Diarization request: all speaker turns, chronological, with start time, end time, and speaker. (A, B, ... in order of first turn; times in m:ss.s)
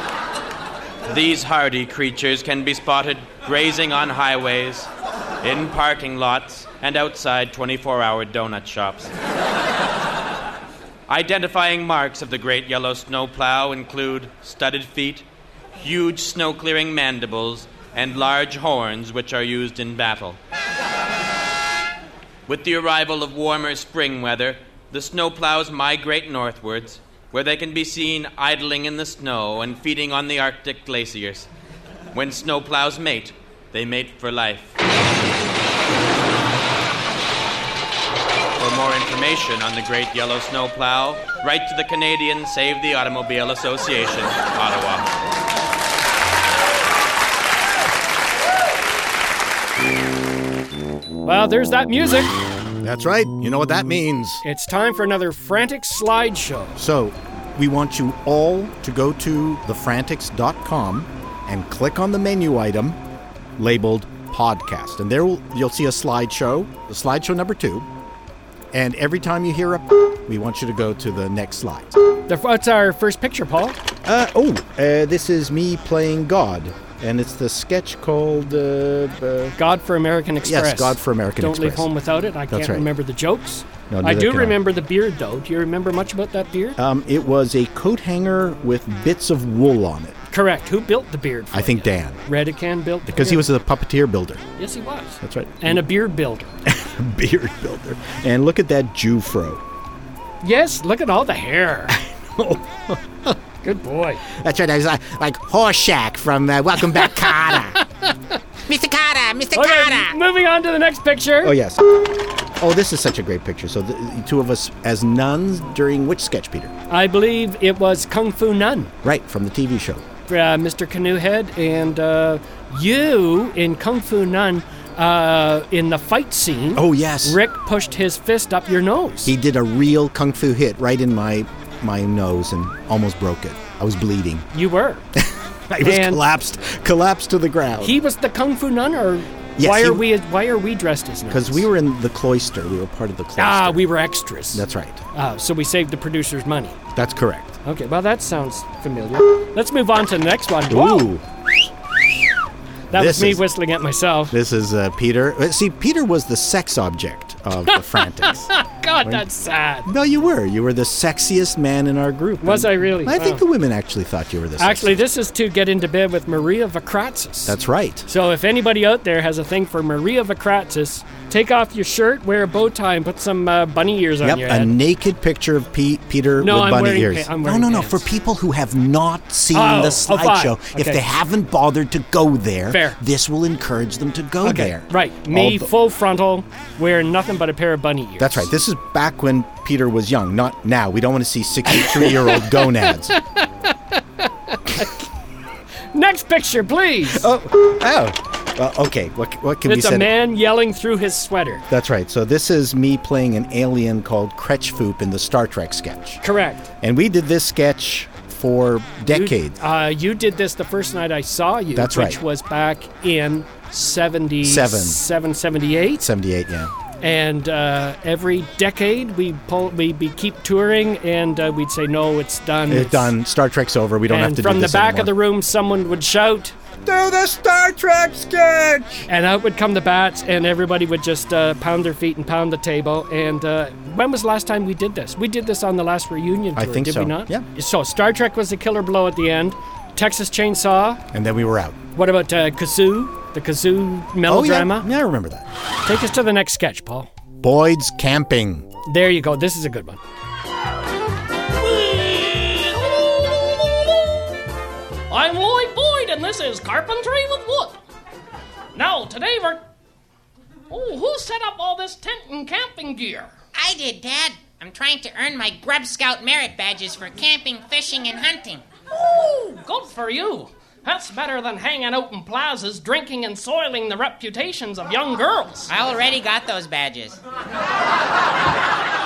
0:01.1-0:04.9 A
0:05.4-0:09.1 A
0:11.1-0:15.2 A
0:15.8-0:20.4 A
0:22.5-0:31.5 A
0:32.1-0:34.7 A
0:38.6-0:45.1 A
0:51.2-0:52.4 B
0:52.8-0:54.4 C
0:54.4-0:56.8 B
0:56.8-1:03.0 C
1:03.6-1:07.9 C
1:08.7-1:11.9 C
1:12.3-1:13.8 B
1:14.0-1:19.6 C
1:19.6-1:26.8 B
1:20.4-1:21.9 C
1:22.5-1:22.9 C
1:23.9-1:24.6 C
1:26.8-1:30.2 C
1:30.3-1:33.5 B
1:31.5-1:32.2 C
1:33.0-1:34.4 C
1:34.6-1:36.5 B
1:35.2-1:35.8 C
1:36.6-1:39.6 C
1:40.4-1:42.0 B
1:41.9-1:43.3 C
1:43.6-1:44.2 B
1:44.3-1:47.8 C
1:48.7-1:50.1 D
1:49.5-1:51.5 B
1:51.4-1:56.8 C
1:56.9-1:58.9 B
1:59.0-2:00.0 C
2:00.3-2:09.3 B
2:06.7-2:07.4 C
2:09.2-2:14.5 C
2:14.5-2:15.0 B
2:15.2-2:18.0 C
2:15.8-2:16.2 B
2:17.8-2:21.7 B
2:19.6-2:20.1 C
2:21.3-2:23.9 C
2:23.4-2:26.8 B
2:24.5-2:25.0 C
2:26.9-2:27.6 C
2:27.6-2:31.1 B
2:30.7-2:31.3 C
2:32.9-2:33.4 C
2:32.9-2:34.4 B
2:34.3-2:38.5 C
2:37.7-2:39.9 B
2:39.8-2:45.0 C
2:42.4-2:43.4 B
2:44.6-2:47.6 B
2:47.4-2:48.1 C
2:48.1-2:54.7 B
2:54.2-3:05.7 C
2:56.4-2:58.0 B
2:59.5-3:01.0 B
3:02.7-3:03.0 B
3:04.4-3:08.5 B
3:08.2-3:13.2 C
3:11.8-3:15.0 B
3:15.9-3:17.3 B
3:17.0-3:20.1 C
3:19.6-3:21.6 B
3:21.7-3:26.2 C
3:26.2-3:26.7 B
3:26.8-3:29.6 C
3:29.1-3:36.0 B
3:31.7-3:32.2 C
3:34.4-3:35.0 C
3:36.0-3:36.7 C
3:37.0-3:43.1 B
3:42.7-3:45.2 C
3:44.1-3:46.5 B
3:46.8-3:49.1 C
3:49.1-4:01.0 B
3:56.5-3:57.4 C
4:01.1-4:01.8 C
4:01.9-4:04.9 B
4:04.3-4:05.4 C
4:05.8-4:07.1 B
4:07.4-4:08.7 C
4:08.8-4:10.0 B
4:11.6-4:14.1 E
4:15.1-4:17.8 E
4:18.7-4:19.7 E
4:20.7-4:23.3 E
4:23.5-4:28.6 D
4:28.9-4:35.7 E
4:35.7-4:37.2 D